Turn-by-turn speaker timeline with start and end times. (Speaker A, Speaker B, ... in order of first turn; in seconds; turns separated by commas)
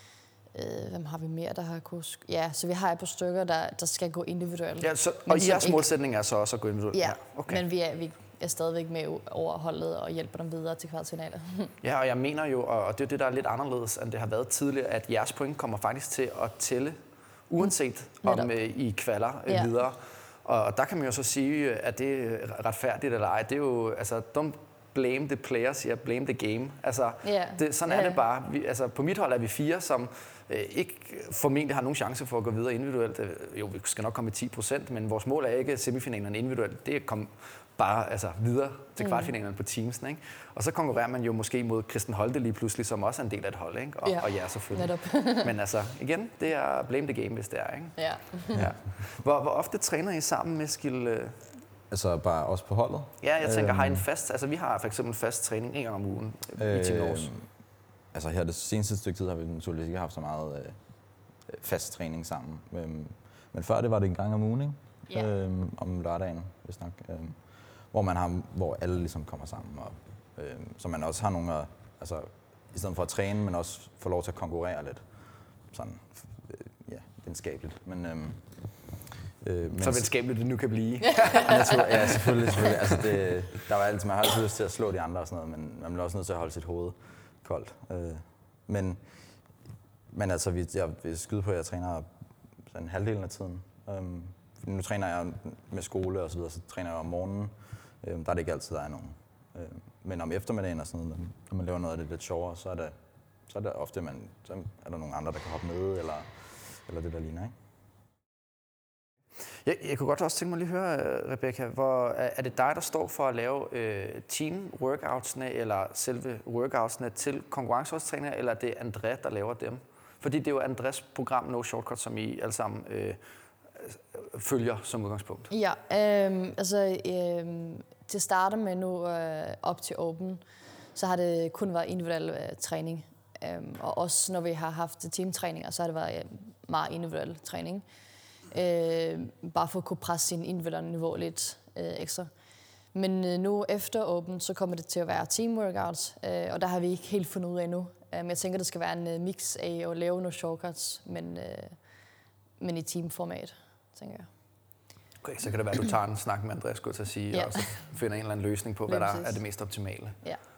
Speaker A: 0.5-5.9, Speaker B: 4.8-7.6, Speaker A: 6.9-11.7, Speaker B: 11.8-17.0, Speaker B: 17.5-51.4, Speaker A: 18.2-18.5, Speaker A: 27.2-28.2, Speaker A: 39.0-39.3, Speaker A: 44.0-45.5, Speaker A: 48.0-48.7, Speaker C: 51.9-54.0, Speaker B: 53.2-57.3, Speaker C: 56.6-57.5, Speaker C: 58.1-60.8, Speaker C: 61.5-67.4, Speaker C: 67.9-75.0, Speaker C: 75.7-78.4, Speaker C: 79.4-80.1, Speaker B: 79.8-83.1, Speaker C: 81.4-89.0, Speaker C: 90.1-92.1, Speaker C: 92.7-102.9, Speaker C: 103.5-107.5, Speaker B: 109.6-123.2, Speaker B: 123.8-125.5, Speaker A: 125.5-130.4, Speaker A: 130.9-137.8, Speaker A: 138.5-142.3, Speaker A: 142.9-151.8, Speaker A: 152.6-154.3, Speaker B: 155.2-160.2, Speaker A: 157.3-157.7, Speaker A: 158.9-159.4